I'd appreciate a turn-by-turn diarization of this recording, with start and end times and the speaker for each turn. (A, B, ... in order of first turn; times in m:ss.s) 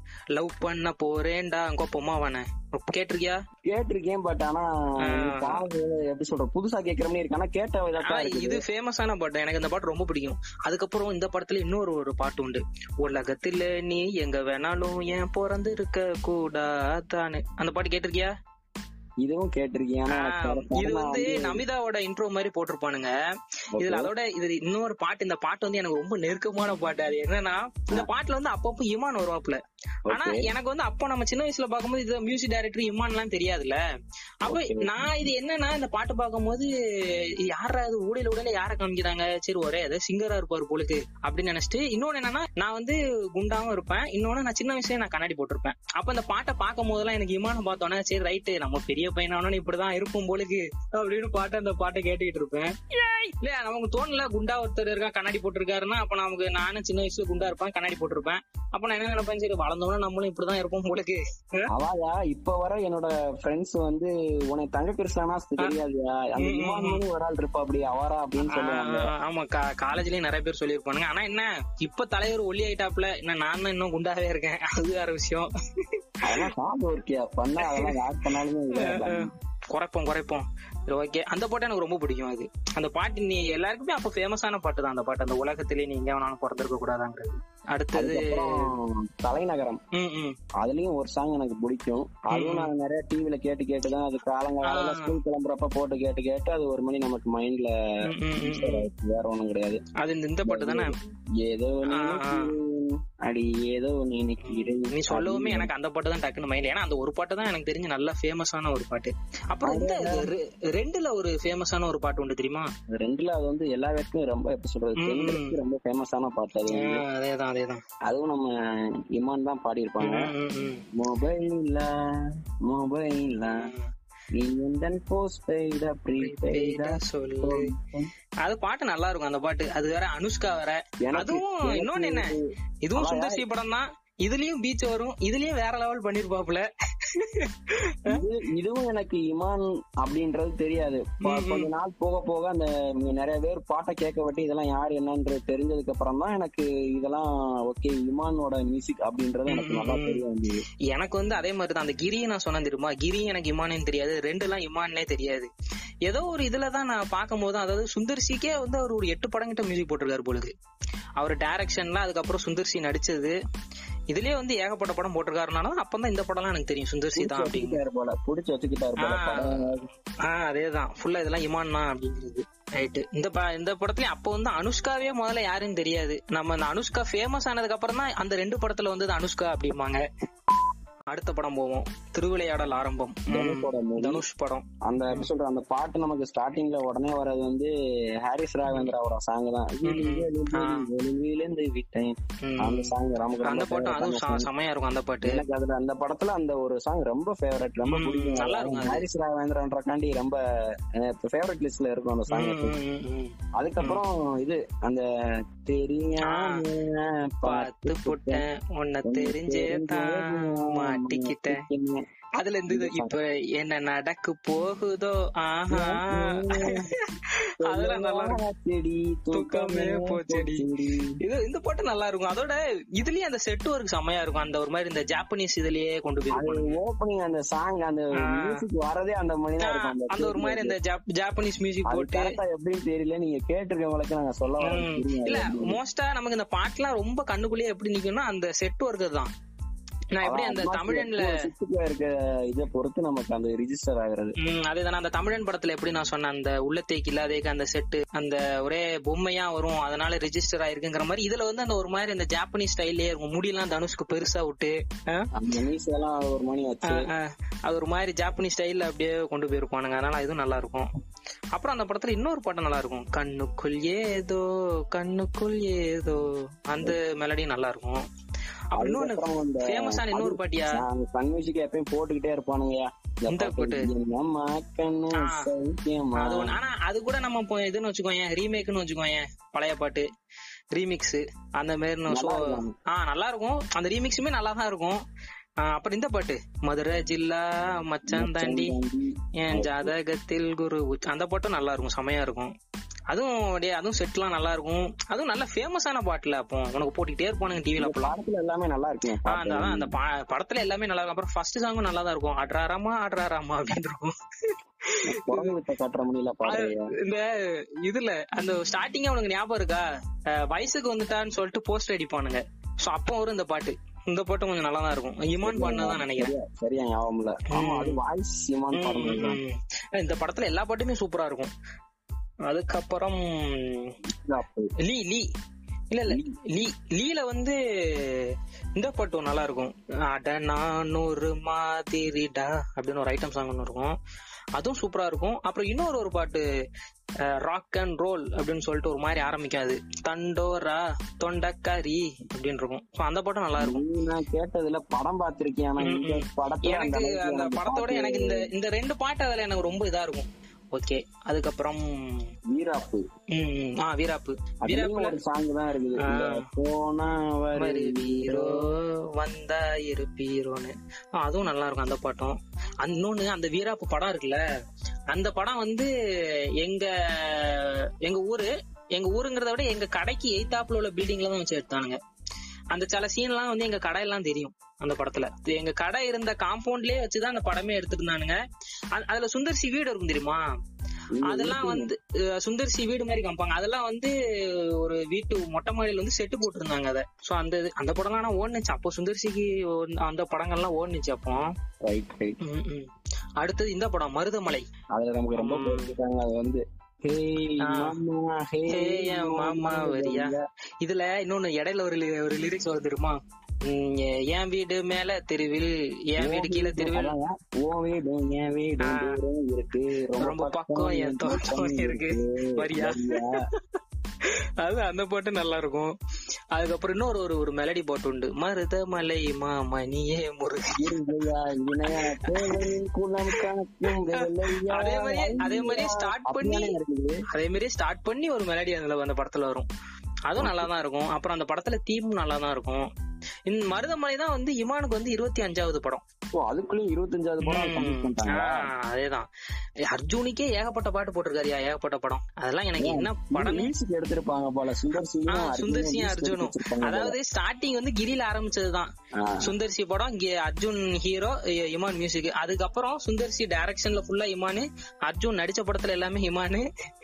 0:00.4-0:03.4 A
0:03.7-0:08.6 B
0:05.1-0:05.6 A
0:08.0-0:18.3 A
0:19.2-0:21.6 B
0:20.1-0:23.1 A
0:23.8-0:24.1 B
0:23.8-0:33.8 A
0:30.1-0:30.5 B
0:34.4-0:36.7 A
0:34.5-0:35.0 B
0:37.4-1:01.6 A
1:01.7-1:09.1 B
1:06.4-1:07.0 A
1:08.5-1:15.5 A
1:16.2-1:19.3 B
1:17.6-1:18.0 A
1:18.8-1:28.7 A
1:28.0-1:29.8 B
1:29.9-1:30.4 A
1:30.6-1:37.7 B
1:32.3-1:32.7 A
1:34.6-1:35.2 A
1:38.1-1:38.9 A
1:38.4-1:39.8 B
1:40.0-1:41.0 A
1:40.5-1:45.7 B
1:41.9-1:42.5 A
1:44.4-1:52.7 A
1:49.6-1:50.3 B
1:52.9-1:57.0 B
1:55.0-1:55.6 A
1:56.7-1:57.8 A
1:58.1-1:58.5 B
1:59.1-2:00.3 B
2:00.0-2:00.8 A
2:01.0-2:01.9 B
2:02.7-2:03.6 B
2:03.5-2:03.9 A
2:04.3-2:08.1 B
2:06.2-2:07.7 A
2:08.4-2:12.3 A
2:11.0-2:12.4 B
2:12.9-2:18.2 A
2:13.0-2:13.4 B
2:18.1-2:30.6 B
2:21.2-2:21.7 A
2:29.5-2:30.2 A
2:30.9-2:35.5 A
2:36.1-2:40.5 A
2:41.2-2:43.4 A
2:44.1-2:47.8 A
2:47.2-2:49.8 B
2:49.0-2:49.6 A
2:50.3-3:00.0 A
3:01.1-3:05.3 A
3:03.3-3:04.2 B
3:04.9-3:07.7 B
3:08.2-3:14.5 B
3:08.7-3:08.9 A
3:09.8-3:10.9 A
3:12.4-3:12.9 A
3:13.4-3:15.4 A
3:15.2-3:20.4 B
3:17.8-3:19.1 A
3:21.0-3:22.7 B
3:22.3-3:24.0 A
3:23.6-3:25.0 B
3:25.6-3:28.4 B
3:26.3-3:26.6 A
3:27.4-3:31.6 A
3:29.0-3:32.0 B
3:32.4-3:38.4 A
3:32.7-3:33.2 B
3:35.7-3:36.9 B
3:37.6-3:41.2 B
3:39.3-3:40.7 A
3:41.2-3:46.8 A
3:46.3-3:50.8 B
3:48.2-3:48.5 A
3:49.6-3:52.4 A
3:51.9-3:55.8 B
3:54.6-3:59.3 A
4:00.1-4:01.4 A
4:00.2-4:04.4 B
4:04.4-4:15.3 A
4:15.4-4:17.1 B
4:16.9-4:20.9 A
4:21.5-4:28.0 A
4:28.7-4:30.8 A
4:28.8-4:36.6 B
4:33.3-4:33.9 A
4:35.2-4:35.5 A
4:36.2-4:40.1 A
4:40.7-4:45.0 A
4:42.1-4:42.8 B
4:45.6-4:48.8 A
4:48.1-4:49.9 B
4:49.4-4:52.5 A
4:53.1-4:58.1 A
4:57.8-4:59.9 B
4:59.3-5:05.5 A
5:05.1-5:06.9 B
5:06.5-5:07.2 A
5:07.8-5:09.8 A
5:10.4-5:16.3 A
5:15.4-5:19.4 B
5:17.5-5:18.0 A
5:18.7-5:21.5 A
5:22.5-5:23.9 A
5:24.2-5:24.7 B
5:24.8-5:25.2 A
5:25.9-5:28.3 A
5:28.8-5:33.9 A
5:34.6-5:36.4 A
5:37.3-5:43.8 A
5:43.6-5:48.4 B
5:45.8-5:52.2 A
5:52.5-5:53.0 B
5:53.4-5:55.2 A
5:54.6-5:58.6 B
5:56.0-5:56.5 A
5:57.6-6:04.4 A
6:05.1-6:05.9 A
6:06.6-6:12.0 A
6:12.7-6:18.4 A
6:18.9-6:20.4 A
6:21.2-6:21.9 B
6:21.3-6:24.1 A
6:24.8-6:31.5 A
6:31.8-6:32.4 B
6:32.4-6:32.9 A
6:33.4-6:34.7 A
6:34.9-6:40.4 B
6:35.4-6:36.0 A
6:37.6-6:38.0 A
6:38.7-6:47.1 A
6:46.2-6:53.4 B
6:48.8-6:49.2 A
6:50.2-6:53.4 A
6:54.6-6:55.9 A
6:56.6-7:01.0 A
7:00.8-7:07.2 B
7:01.8-7:02.7 A
7:04.1-7:06.8 A
7:07.3-7:09.7 A
7:10.3-7:12.9 A
7:10.4-7:10.7 B
7:13.5-7:16.0 A
7:16.4-7:18.6 B
7:17.4-7:19.3 A
7:19.9-7:23.7 A
7:22.8-7:27.2 B
7:25.3-7:28.9 A
7:29.2-7:29.5 B
7:29.4-7:36.7 A